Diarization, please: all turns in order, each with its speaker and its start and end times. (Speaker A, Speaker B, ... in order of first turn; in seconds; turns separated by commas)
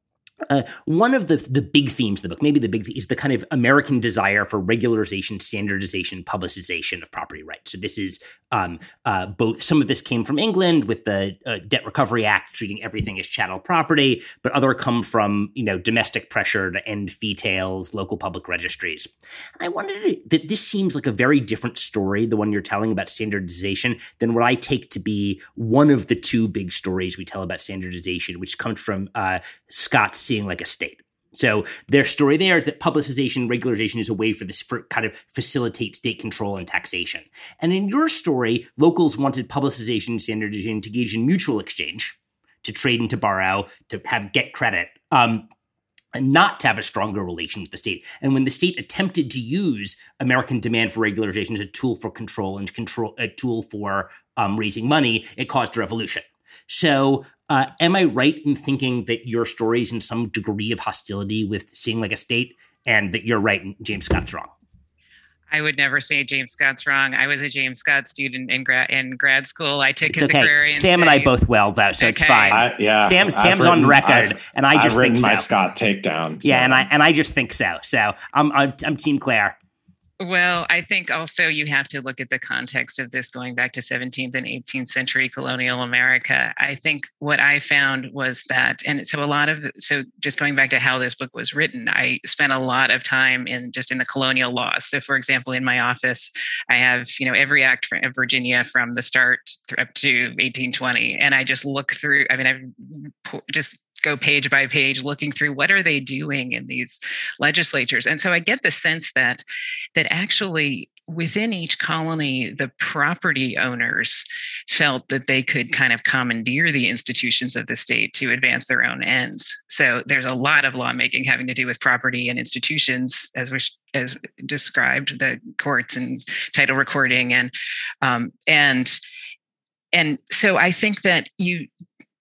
Speaker A: 0.5-45.5, Speaker A: 46.1-64.5, Speaker B: 65.5-71.3, Speaker A: 70.1-75.5, Speaker B: 72.0-72.6, Speaker C: 72.5-76.9, Speaker A: 76.4-79.5, Speaker B: 80.2-109.4, Speaker B: 110.0-129.0, Speaker B: 129.9-131.7